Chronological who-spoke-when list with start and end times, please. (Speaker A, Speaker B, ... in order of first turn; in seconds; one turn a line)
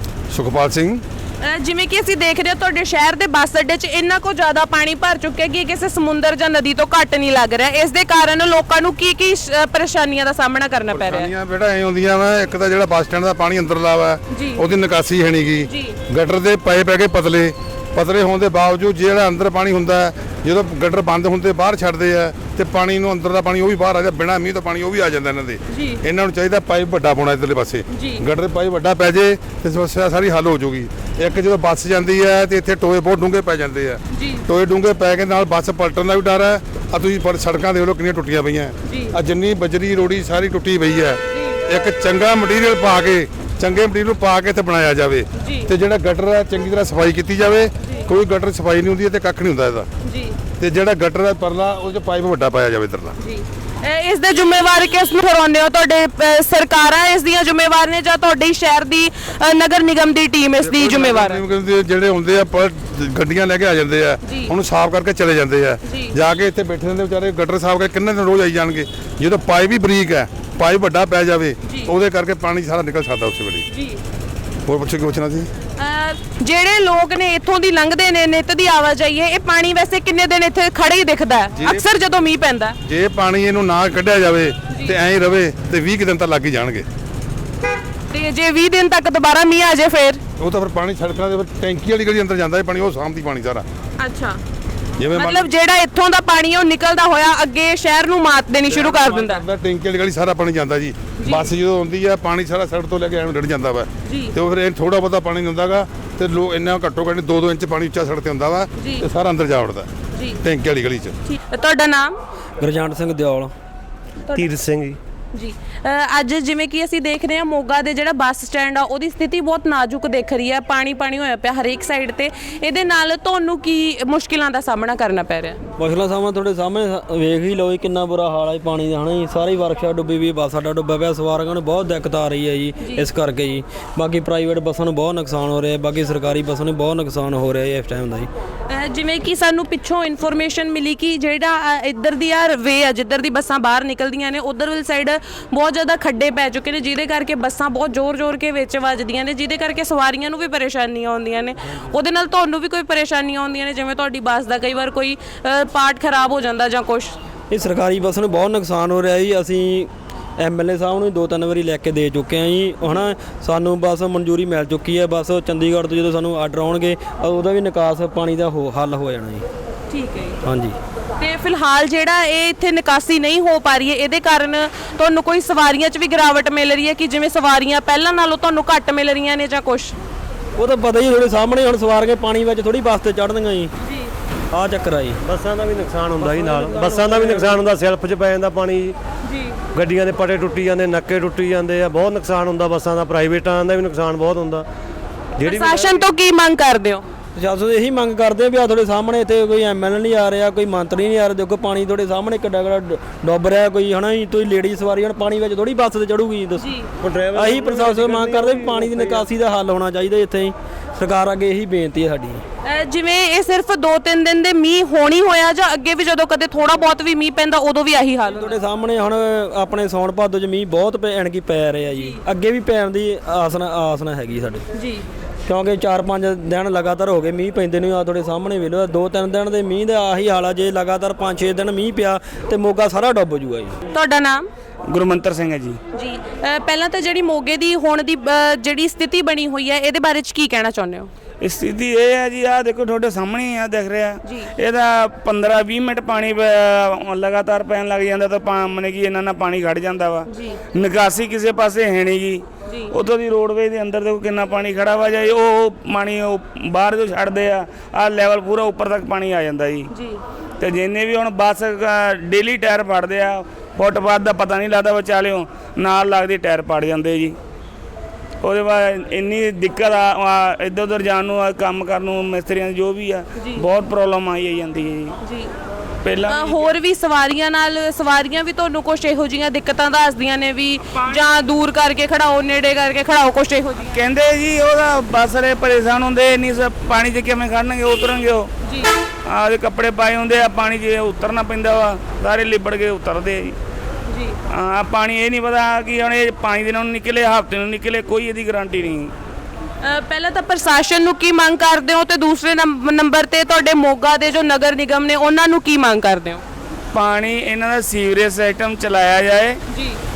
Speaker A: 0.3-1.0
Speaker B: 1.4-11.3
Speaker A: 10.9-49.9
Speaker B: 14.3-14.6
Speaker B: 15.6-16.0
Speaker B: 25.7-26.0
Speaker B: 27.9-28.2
Speaker B: 34.1-34.5
Speaker B: 38.8-39.1
Speaker B: 41.3-41.6
Speaker B: 45.3-45.7
Speaker B: 50.0-50.4
Speaker A: 50.6-53.1
Speaker B: 53.2-61.4
Speaker A: 60.6-73.7
Speaker B: 64.2-64.5
Speaker B: 65.8-66.2
Speaker B: 71.6-71.9
Speaker B: 73.7-74.0
Speaker A: 74.7-75.5
Speaker B: 75.8-82.8
Speaker A: 81.6-81.8
Speaker A: 82.8-86.9
Speaker B: 84.7-84.9
Speaker B: 88.1-90.2
Speaker A: 90.4-93.7
Speaker B: 94.0-94.4
Speaker A: 95.0-95.5
Speaker B: 95.1-99.4
Speaker A: 98.7-109.9
Speaker B: 101.2-101.5
Speaker B: 104.0-104.3
Speaker B: 108.8-109.0
Speaker B: 110.1-110.4
Speaker A: 110.4-111.2
Speaker B: 111.2-112.2
Speaker C: 112.6-113.5
Speaker D: 114.3-115.0
Speaker B: 115.3-125.6
Speaker C: 125.8-138.3
Speaker B: 138.7-157.2
Speaker C: 157.5-169.4
Speaker B: 169.9-170.4
Speaker C: 170.4-170.8
Speaker B: 171.2-179.9
Speaker C: 180.6-183.7
Speaker B: 183.8-184.1
Speaker C: 184.5-185.2
Speaker D: 185.2-188.9
Speaker C: 186.4-187.5
Speaker B: 189.2-189.5
Speaker D: 189.7-194.7
Speaker D: 195.4-196.0
Speaker B: 195.4-197.0
Speaker C: 197.3-206.7
Speaker B: 206.6-206.9
Speaker D: 207.0-209.3
Speaker C: 207.3-212.4
Speaker B: 212.6-218.6
Speaker C: 218.3-224.7
Speaker B: 221.9-222.2
Speaker B: 224.7-225.0
Speaker C: 225.5-233.8
Speaker B: 233.9-234.5
Speaker E: 234.9-235.8
Speaker B: 235.9-241.1
Speaker E: 241.4-259.9
Speaker B: 244.2-244.5
Speaker B: 250.3-250.6
Speaker B: 252.7-252.9
Speaker B: 259.9-260.2
Speaker E: 260.6-267.4
Speaker E: 268.4-275.2
Speaker B: 273.4-273.6
Speaker B: 275.2-275.5
Speaker E: 276.0-276.7
Speaker B: 276.2-283.9
Speaker E: 280.9-281.2
Speaker E: 283.8-288.5
Speaker B: 288.6-288.9
Speaker E: 289.2-293.6
Speaker B: 294.1-294.4
Speaker E: 294.5-299.1
Speaker B: 299.8-306.4
Speaker E: 306.9-309.6
Speaker B: 309.7-310.0